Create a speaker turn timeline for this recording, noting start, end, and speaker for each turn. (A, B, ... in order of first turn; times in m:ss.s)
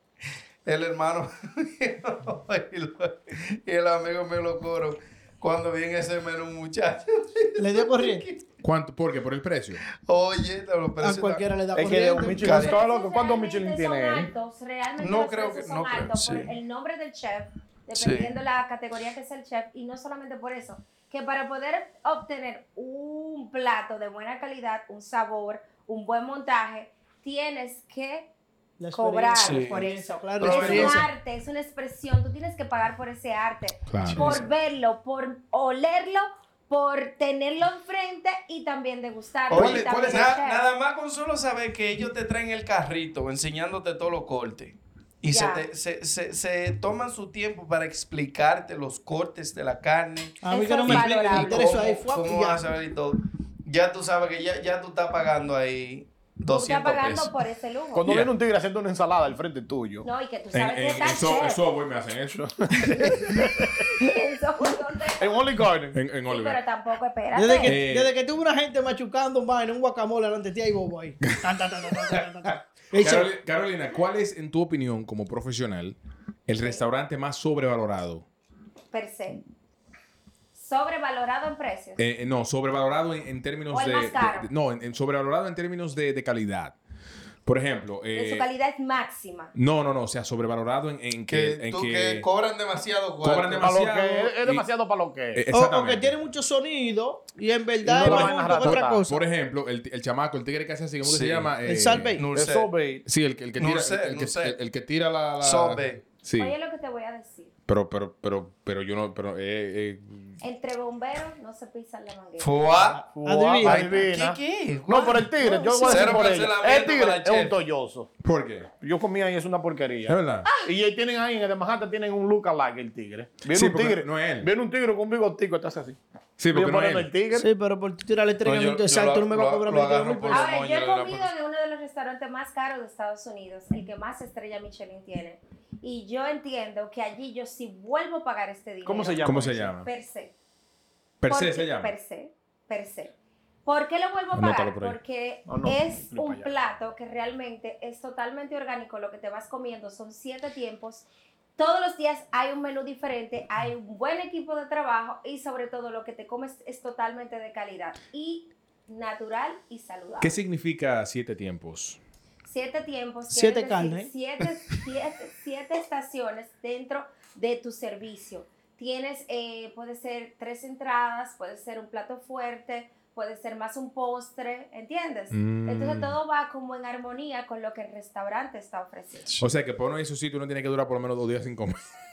0:00.7-0:08.4 A
0:07.6-0:08.3 B
0:08.6-0:09.8 C
0:10.0-0:11.5 A
0:11.0-0:12.6 B
0:11.7-0:14.3 D
0:12.3-0:12.8 A
0:12.4-0:28.3 E
0:15.0-0:16.5 A
0:18.0-0:18.3 A
0:28.8-0:31.1 B
0:28.9-0:40.6 E
0:29.4-0:29.8 A
0:30.4-0:31.1 A
0:33.9-0:34.4 C
0:34.1-0:34.5 A
0:39.5-0:57.3 A
0:39.5-0:40.3 C
0:45.3-0:45.7 E
0:50.4-0:52.6 B
0:50.5-0:51.8 E
0:56.5-0:58.1 E
0:58.0-1:00.1 D
0:58.0-0:58.3 A
1:00.0-1:01.6 E
1:00.5-1:02.4 C
1:02.4-1:04.0 D
1:03.8-1:05.5 E
1:05.2-1:06.0 D
1:05.9-1:06.6 C
1:06.2-1:07.8 E
1:07.4-1:13.3 B
1:07.6-1:08.1 C
1:12.9-1:18.3 C
1:16.5-1:16.8 E
1:18.9-1:19.4 E
1:20.5-1:22.0 E
1:22.0-1:26.8 C
1:23.7-1:24.5 E
1:27.5-1:28.5 C
1:28.1-1:29.5 E
1:29.6-1:32.3 C
1:31.3-1:33.7 A
1:33.2-1:34.7 C
1:33.6-1:35.4 D
1:35.4-1:36.2 C
1:35.5-1:39.2 B
1:37.8-1:39.0 D
1:38.0-1:42.2 C
1:41.0-1:42.7 A
1:41.6-1:42.3 B
1:42.3-1:43.1 D
1:43.1-1:46.5 C
1:43.6-1:44.6 A
1:45.4-1:46.0 A
1:46.4-1:47.5 E
1:47.7-1:50.4 C
1:50.4-1:52.6 E
1:52.4-1:53.0 A
1:52.7-1:54.1 B
1:53.1-1:58.1 D
1:53.6-1:57.5 A
1:55.4-1:56.3 B
1:58.2-1:58.7 C
1:58.8-2:06.0 D
2:00.1-2:00.5 C
2:00.5-2:00.7 E
2:03.5-2:04.5 C
2:06.4-2:07.1 C
2:06.5-2:07.5 D
2:07.3-2:10.5 B
2:08.4-2:11.3 A
2:10.3-2:20.3 E
2:18.8-2:19.7 D
2:19.2-2:19.9 C
2:21.2-2:21.9 C
2:21.3-2:23.1 E
2:23.6-2:31.1 E
2:24.3-2:25.0 C
2:25.5-2:26.5 D
2:31.6-2:40.4 E
2:40.2-2:42.0 C
2:42.4-2:59.3 E
2:43.3-2:44.1 B
2:55.3-2:56.2 C
2:59.4-3:01.8 C